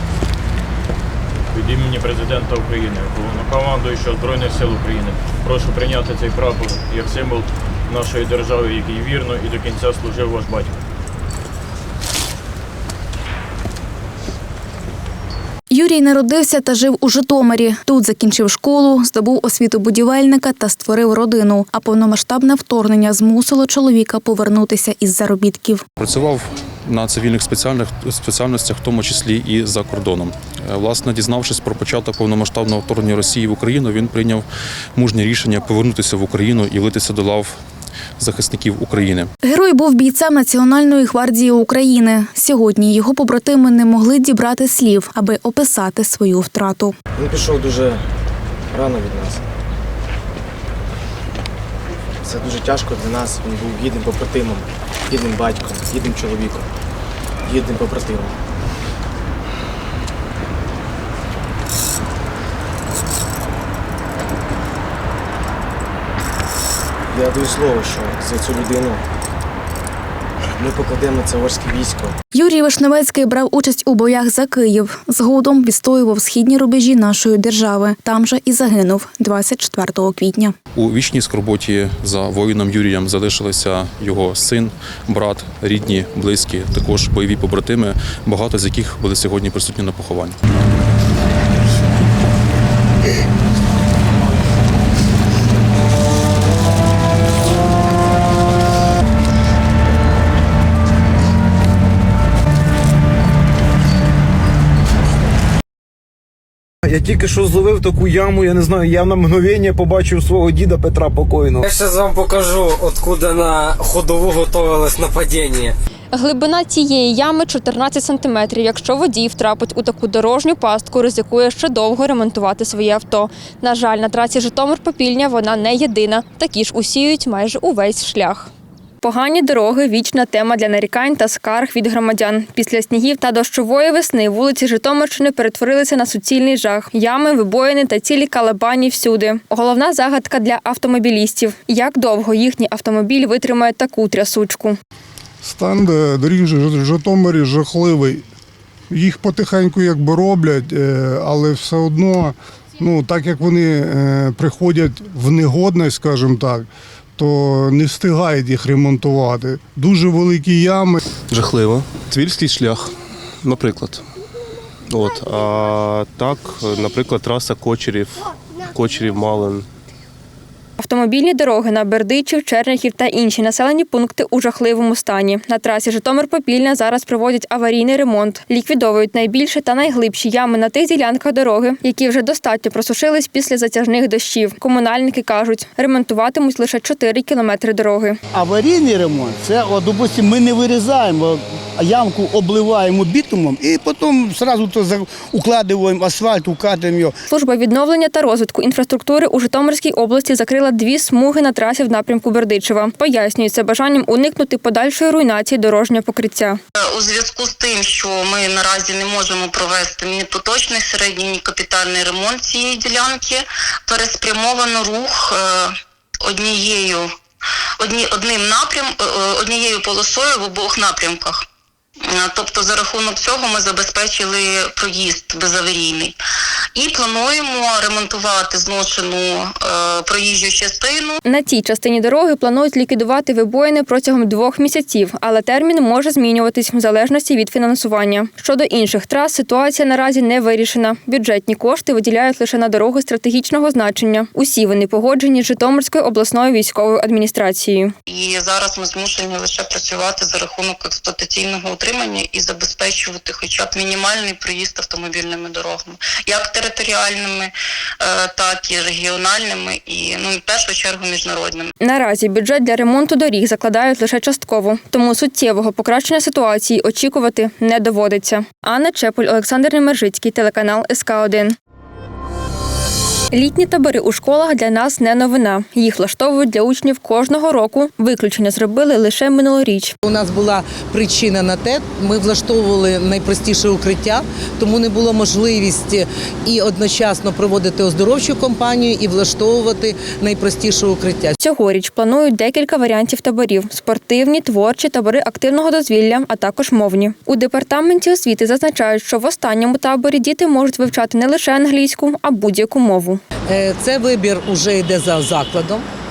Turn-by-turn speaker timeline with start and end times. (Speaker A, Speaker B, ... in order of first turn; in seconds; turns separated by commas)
Speaker A: 1.5-10.8, Speaker B: 15.7-25.8, Speaker C: 26.0-37.6, Speaker C: 38.2-39.3, Speaker B: 39.4-46.9, Speaker D: 47.2-48.0, Speaker D: 48.7-49.4, Speaker D: 52.3-54.6, Speaker E: 52.6-53.0, Speaker E: 55.2-56.1, Speaker D: 55.2-56.6, Speaker E: 57.6-58.2, Speaker D: 57.6-58.2, Speaker E: 67.2-68.8, Speaker D: 67.3-68.9, Speaker D: 70.7-72.1, Speaker B: 72.3-80.5, Speaker C: 80.8-90.3, Speaker F: 108.0-110.5, Speaker F: 111.2-111.6, Speaker G: 111.7-115.7, Speaker H: 116.1-128.5, Speaker H: 129.0-144.8, Speaker I: 145.4-148.2, Speaker I: 148.9-161.0, Speaker E: 161.3-162.8, Speaker E: 163.4-164.0, Speaker E: 164.9-169.7, Speaker H: 170.8-188.2, Speaker J: 188.3-197.2, Speaker H: 197.3-206.6, Speaker K: 206.8-217.2, Speaker K: 217.8-221.4, Speaker K: 222.0-226.2, Speaker K: 226.7-231.2, Speaker H: 231.2-247.9, Speaker K: 248.1-261.7, Speaker H: 261.8-271.5, Speaker H: 273.3-279.9, Speaker L: 280.0-291.3, Speaker H: 291.4-303.2, Speaker L: 303.5-305.8